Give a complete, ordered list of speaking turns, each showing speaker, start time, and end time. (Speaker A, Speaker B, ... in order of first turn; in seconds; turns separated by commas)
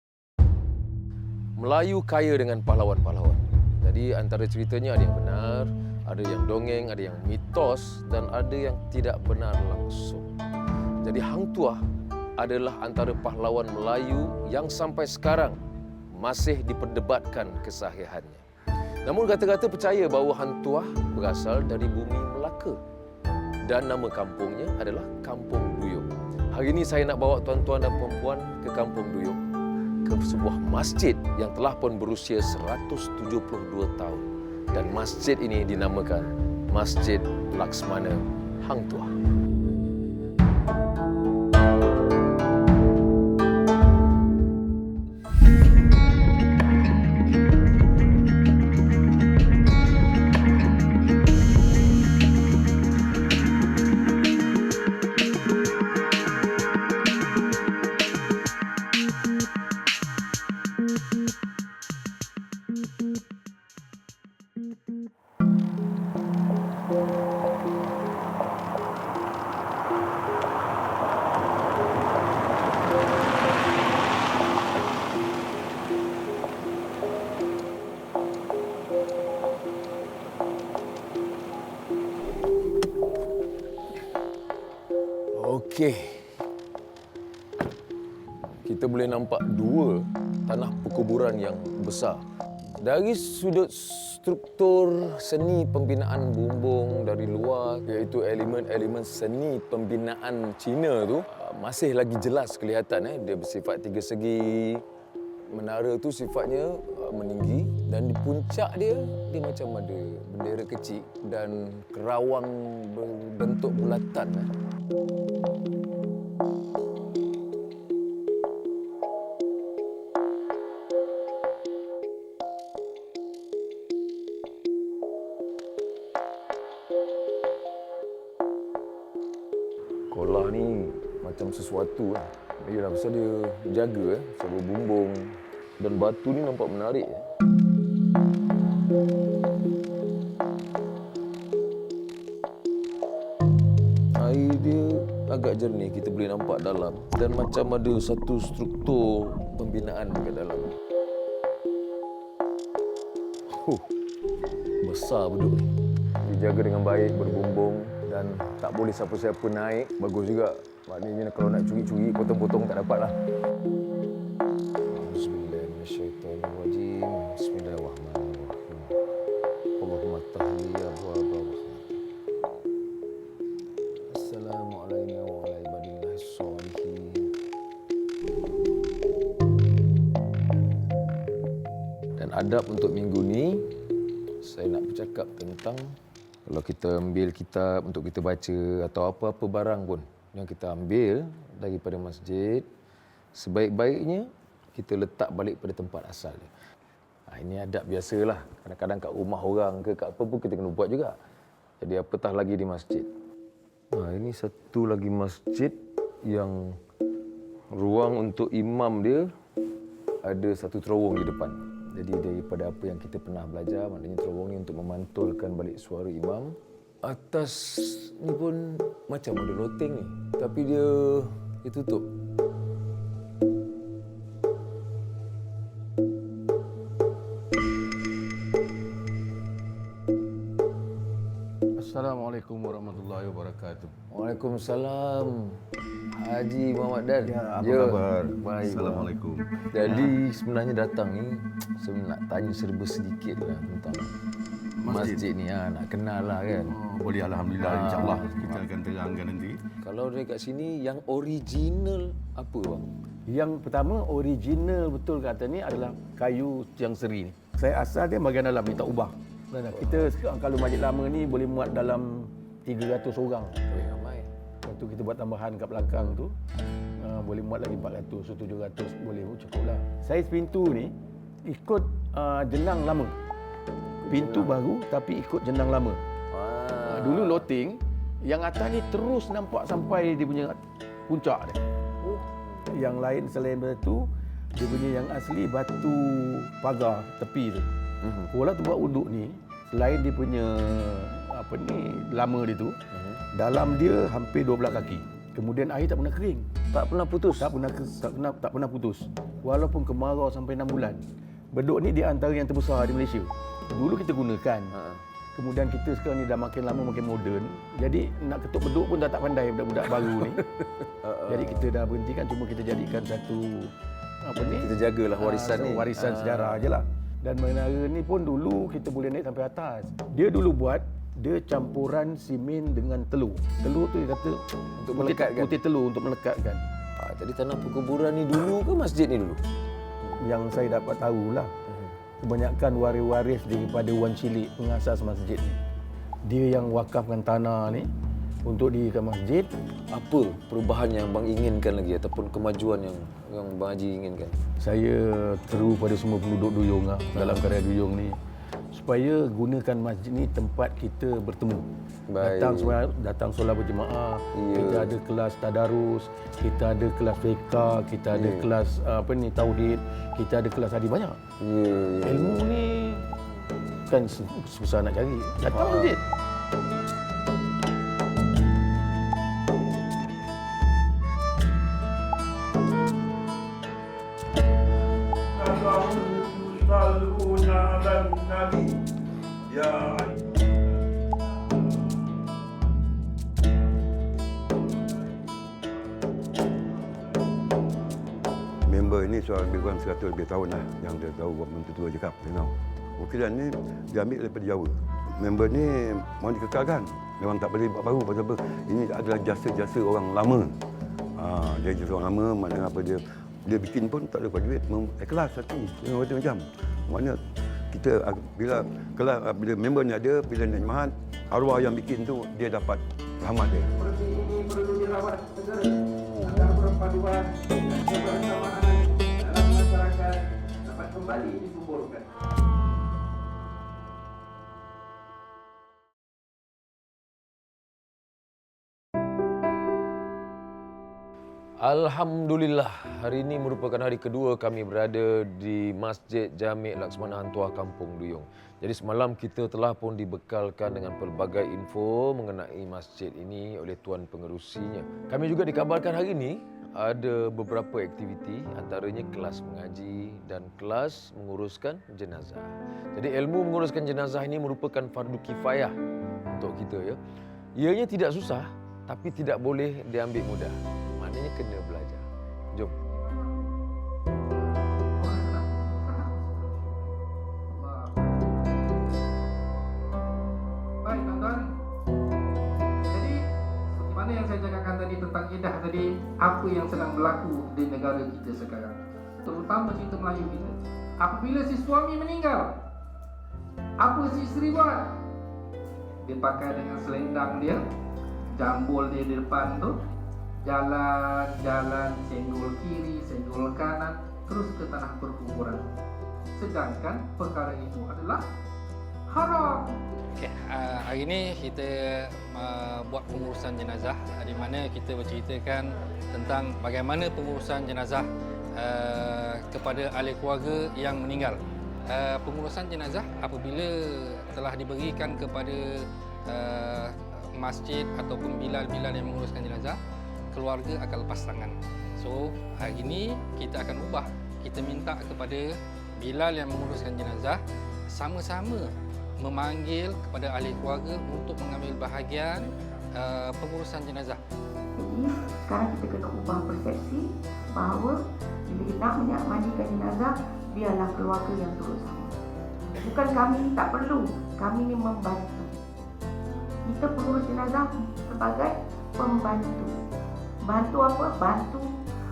Speaker A: 1.6-10.4, Speaker A: 11.0-11.8, Speaker A: 12.4-15.6, Speaker A: 16.1-18.4, Speaker A: 19.0-22.8, Speaker A: 23.6-29.4, Speaker A: 30.0-39.1, Speaker A: 85.3-86.3, Speaker A: 88.6-92.2, Speaker A: 92.8-104.8, Speaker A: 105.5-114.5, Speaker A: 130.1-137.2, Speaker A: 144.2-150.7, Speaker A: 153.5-153.8, Speaker A: 154.8-155.6, Speaker A: 156.2-163.2, Speaker A: 164.9-168.9, Speaker A: 169.8-171.8, Speaker A: 174.1-177.3, Speaker A: 182.2-183.6, Speaker A: 184.4-185.9, Speaker A: 186.5-192.7, Speaker A: 193.3-196.5, Speaker A: 197.3-201.2, Speaker A: 201.8-203.1, Speaker A: 203.9-206.8, Speaker A: 207.7-209.3, Speaker A: 210.2-222.1, Speaker B: 231.8-233.9, Speaker A: 234.1-235.6, Speaker A: 236.2-239.1, Speaker B: 237.3-240.1, Speaker A: 239.7-244.1, Speaker B: 244.8-245.2, Speaker A: 244.9-246.7, Speaker B: 246.7-249.6, Speaker A: 247.6-248.6, Speaker A: 249.8-252.9, Speaker B: 253.3-263.6, Speaker A: 259.7-260.1, Speaker A: 263.7-264.3, Speaker B: 264.6-266.3, Speaker B: 267.0-270.9, Speaker B: 271.5-273.1, Speaker A: 274.0-274.6, Speaker B: 274.1-276.0, Speaker A: 276.3-277.4, Speaker B: 276.8-281.6, Speaker B: 282.7-287.7, Speaker A: 288.0-288.3, Speaker B: 288.3-292.8, Speaker A: 292.9-293.2, Speaker B: 293.3-296.4, Speaker A: 296.7-297.6, Speaker B: 297.4-304.7, Speaker A: 304.7-305.0, Speaker B: 305.4-310.4, Speaker A: 311.0-311.7, Speaker B: 311.2-313.7, Speaker B: 314.2-324.4, Speaker A: 314.6-316.7, Speaker A: 324.8-325.6, Speaker B: 324.9-326.6, Speaker A: 327.0-329.4, Speaker B: 330.2-331.5, Speaker B: 332.2-335.6, Speaker B: 336.3-337.9, Speaker B: 338.4-339.5, Speaker A: 339.9-344.4, Speaker B: 344.6-348.1, Speaker B: 348.7-351.6, Speaker A: 352.1-352.8, Speaker B: 352.2-361.2, Speaker A: 354.3-354.9, Speaker A: 358.1-358.5, Speaker A: 361.4-362.5, Speaker B: 362.0-363.1, Speaker B: 363.9-366.0, Speaker A: 365.5-366.0, Speaker C: 375.4-378.7, Speaker C: 379.5-380.3, Speaker C: 388.7-400.5, Speaker C: 401.2-413.7, Speaker A: 431.6-455.7, Speaker A: 456.3-457.0, Speaker A: 457.6-462.7, Speaker D: 462.9-463.5, Speaker D: 464.4-466.9, Speaker D: 467.5-468.7, Speaker D: 470.8-471.5, Speaker D: 472.9-473.2, Speaker D: 473.7-475.7, Speaker E: 475.1-478.8, Speaker D: 476.2-476.9, Speaker D: 479.3-482.5, Speaker E: 479.6-480.3, Speaker D: 483.8-484.9, Speaker D: 486.0-487.6, Speaker E: 486.1-486.7, Speaker D: 488.3-489.8, Speaker D: 490.4-495.6, Speaker E: 495.0-495.6, Speaker D: 496.3-498.2, Speaker D: 499.1-499.7, Speaker E: 500.2-508.0, Speaker E: 508.6-511.4, Speaker E: 511.9-519.8, Speaker E: 520.3-528.7, Speaker E: 529.2-534.2, Speaker F: 534.8-542.1, Speaker F: 542.8-545.5, Speaker F: 546.6-549.7, Speaker F: 550.4-551.8